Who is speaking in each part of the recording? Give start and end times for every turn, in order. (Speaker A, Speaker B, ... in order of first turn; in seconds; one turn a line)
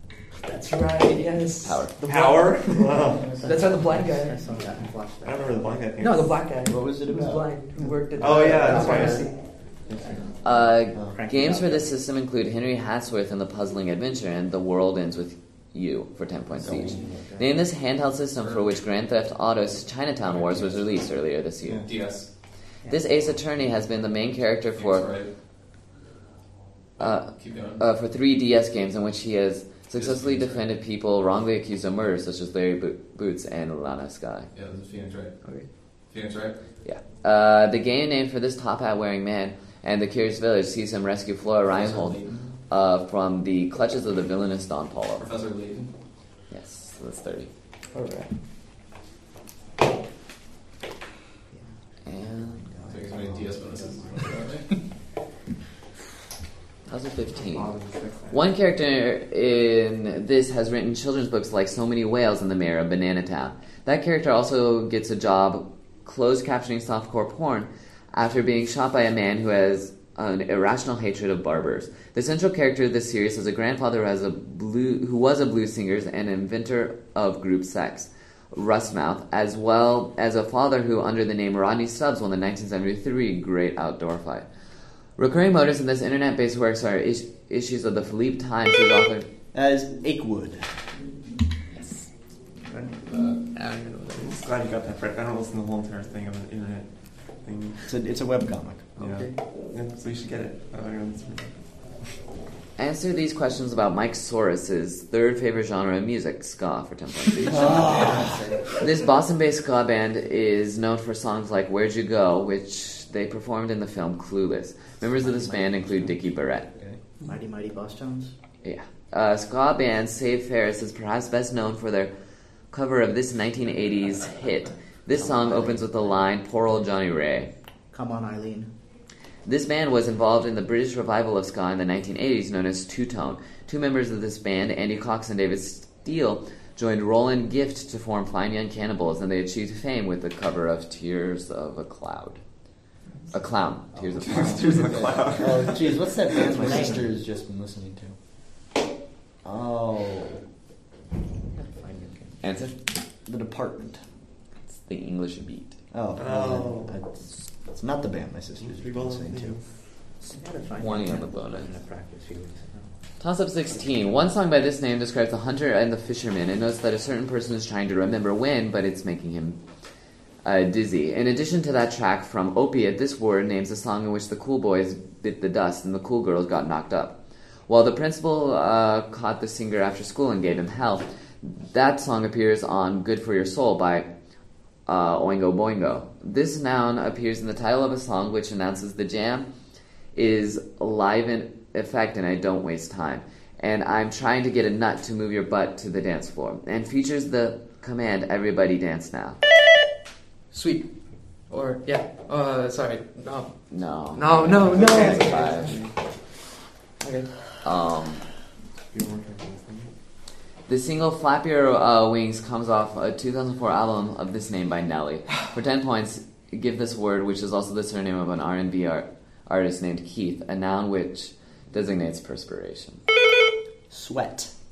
Speaker A: 0.4-4.5
Speaker B: 1.6-1.9
Speaker C: 2.0-3.4
Speaker D: 3.1-5.7
Speaker C: 5.2-6.5
Speaker A: 6.0-9.4
Speaker E: 6.7-7.5
Speaker D: 7.8-9.2
Speaker C: 8.2-10.3
Speaker B: 10.4-21.9
Speaker E: 10.9-11.2
Speaker D: 11.0-11.9
Speaker E: 16.6-17.2
Speaker D: 16.6-17.5
Speaker F: 18.4-18.7
Speaker F: 20.2-20.9
Speaker F: 21.7-22.3
Speaker B: 22.9-25.1
Speaker F: 24.7-25.3
Speaker B: 27.0-34.5
Speaker F: 27.0-27.8
Speaker F: 29.9-30.6
Speaker F: 34.5-35.3
Speaker F: 36.1-36.6
Speaker B: 36.8-45.3
Speaker F: 41.7-42.5
Speaker F: 45.2-45.9
Speaker B: 46.5-47.5
Speaker A: 47.9-48.3
Speaker D: 51.5-54.4
Speaker B: 52.0-52.7
Speaker F: 52.8-54.8
Speaker B: 56.9-57.7
Speaker C: 57.4-58.5
Speaker B: 58.3-84.4
Speaker B: 85.2-89.3
Speaker E: 89.5-90.7
Speaker F: 93.0-93.4
Speaker A: 93.5-94.5
Speaker C: 94.2-97.8
Speaker E: 97.9-98.9
Speaker C: 99.0-101.6
Speaker A: 99.0-99.4
Speaker B: 102.8-108.2
Speaker E: 107.4-108.4
Speaker A: 107.8-108.4
Speaker B: 108.8-116.7
Speaker D: 115.2-115.6
Speaker D: 117.2-118.3
Speaker B: 118.6-122.1
Speaker B: 122.7-127.5
Speaker D: 125.1-126.2
Speaker D: 127.9-128.7
Speaker B: 129.4-142.4
Speaker B: 143.3-145.0
Speaker C: 144.2-147.0
Speaker E: 145.4-148.2
Speaker D: 146.3-147.1
Speaker E: 149.4-150.4
Speaker D: 151.5-152.4
Speaker B: 152.4-152.8
Speaker E: 153.2-154.0
Speaker B: 154.8-155.8
Speaker E: 155.9-159.6
Speaker C: 156.2-157.0
Speaker C: 158.6-159.6
Speaker D: 160.2-162.9
Speaker B: 160.8-161.7
Speaker B: 163.2-169.6
Speaker B: 170.4-184.1
Speaker B: 184.9-189.5
Speaker B: 190.1-199.4
Speaker A: 200.5-200.9
Speaker A: 201.5-203.5
Speaker B: 203.7-205.7
Speaker A: 204.1-205.9
Speaker C: 204.4-205.9
Speaker A: 207.0-207.3
Speaker B: 207.6-208.2
Speaker C: 208.9-209.9
Speaker B: 210.7-223.0
Speaker E: 223.9-224.5